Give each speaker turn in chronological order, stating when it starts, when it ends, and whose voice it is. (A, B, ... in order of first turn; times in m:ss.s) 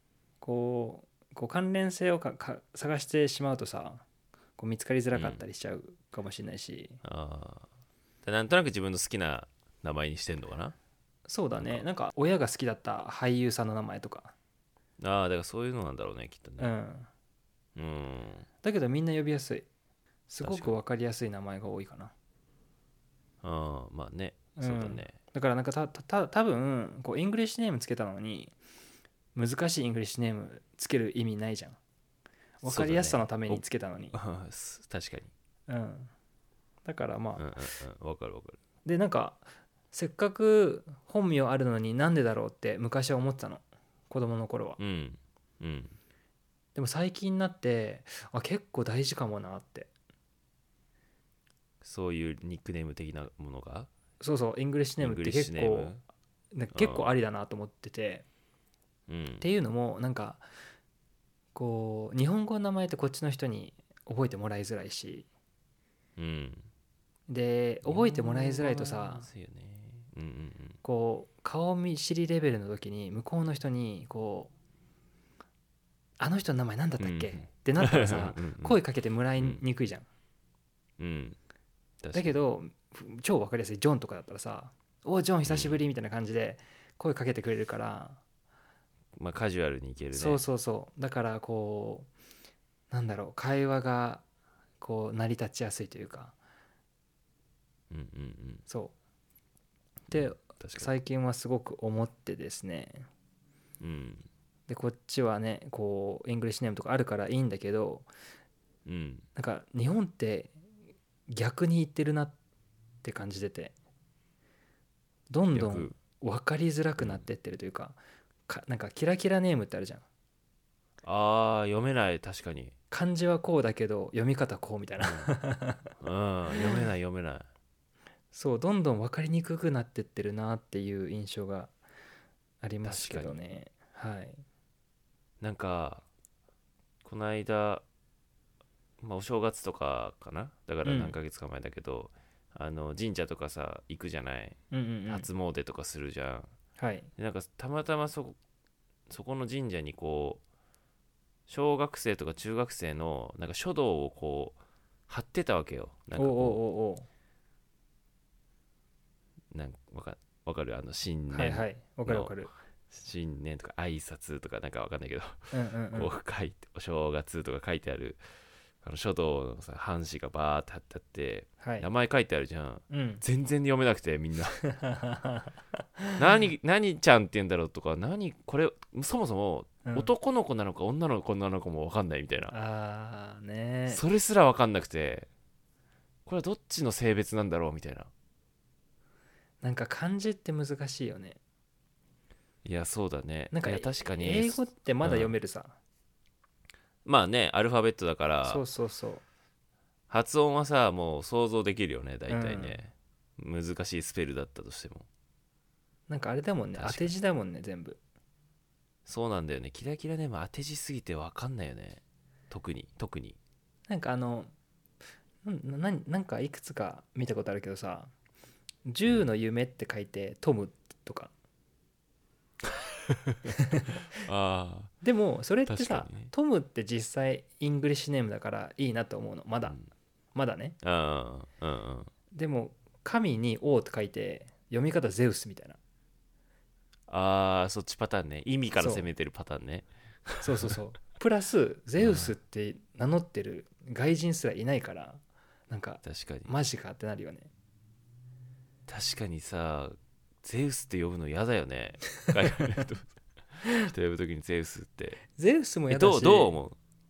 0:00.4-0:04.0 A
0:04.6-0:07.0 A
0:05.1-0:05.4 B
0:07.0-0:07.7 B
0:08.2-0:10.8 B
0:11.3-0:14.3 A
0:11.6-0:11.8 B
0:15.0-0:16.7 B
0:16.6-0:17.1 A
0:17.8-0:18.5 B
0:18.6-0:19.7 A
0:20.3-0:22.1 A
0:20.4-0:20.7 B
0:23.4-0:25.2 B
0:24.6-0:28.5 A
0:29.3-0:31.8 A
0:32.6-0:34.2 A
0:32.6-0:35.3 B
0:35.7-0:36.1 A
0:36.8-0:37.5 A
0:37.4-0:38.6 B
0:38.8-0:44.8 A
0:44.8-0:46.0 B
0:46.8-0:49.9 A
0:51.8-0:53.9 B
0:54.2-0:55.9 A
0:55.0-0:56.0 B
0:56.5-0:58.2 A
0:56.7-0:57.1 B
0:59.1-0:59.4 B
0:59.4-1:00.4 A
1:01.6-1:05.3 A
1:06.2-1:06.6 B
1:07.3-1:09.3 A
1:07.8-1:10.8 B
1:10.8-1:14.5 A
1:16.2-1:20.1 A
1:17.0-1:18.8 B
1:21.0-1:21.4 B
1:22.0-1:22.4 B
1:22.1-1:28.2 A
1:25.4-1:25.8 B
1:29.2-1:30.4 B
1:30.1-1:32.1 A
1:32.9-1:34.2 A
1:34.8-1:36.4 A
1:37.9-1:38.6 B
1:38.7-1:38.9 A
1:40.1-1:40.9 B
1:40.1-1:43.1 A
1:43.8-1:44.2 B
1:44.7-1:48.1 A
1:48.9-1:49.2 B
1:49.4-1:50.6 A
1:51.3-1:52.4 A
1:53.0-1:53.7 A
1:55.3-2:00.0 A
1:55.5-1:55.9 B
1:57.0-1:57.2 B
2:01.0-2:02.7 B
2:02.9-2:05.9 A
2:05.0-2:05.4 B
2:06.0-2:07.5 B
2:06.5-2:06.9 A
2:08.3-2:11.7 A
2:12.6-2:14.4 A
2:12.8-2:13.4 B
2:15.4-2:16.0 B
2:17.0-2:17.8 B
2:19.0-2:24.6 B
2:20.8-2:21.1 A
2:24.7-2:25.3 A
2:25.1-2:26.5 B
2:26.8-2:27.1 A
2:27.2-2:28.4 B
2:29.1-2:30.4 B
2:31.5-2:34.6 B
2:35.1-2:36.6 B
2:36.2-2:37.1 A
2:39.5-2:42.4 B
2:41.3-2:42.5 A
2:42.9-2:48.2 B
2:45.5-2:46.1 A
2:48.8-2:54.6 B
2:51.6-2:51.9 A
2:52.9-2:53.2 A
2:54.6-2:56.2 A
2:56.2-3:02.5 B
2:59.8-3:00.1 A
3:02.5-3:04.0 A
3:03.9-3:05.3 B
3:06.2-3:08.1 B
3:09.6-3:11.4 A
3:12.6-3:15.3 B
3:13.5-3:15.8 A
3:17.0-3:18.6 B
3:18.4-3:19.2 A
3:20.1-3:25.1 B
3:22.3-3:22.8 A
3:26.1-3:28.0 A
3:26.8-3:27.1 B
3:29.1-3:33.4 B
3:33.9-3:34.5 A
3:35.4-3:38.1 A
3:38.9-3:41.3 A
3:42.7-3:43.6 B
3:43.5-3:44.0 A
3:44.2-3:44.9 B
3:45.0-3:49.8 A
3:45.7-3:46.3 B
3:50.4-3:50.8 A
3:50.8-3:52.1 B
3:52.3-3:55.8 A
3:57.1-4:00.8 B
3:58.8-3:59.1 A
4:00.4-4:07.5 A
4:02.0-4:02.4 B
4:06.0-4:06.5 B
4:08.9-4:13.1 B
4:13.8-4:15.2 B
4:15.4-4:16.6 A
4:15.9-4:16.8 B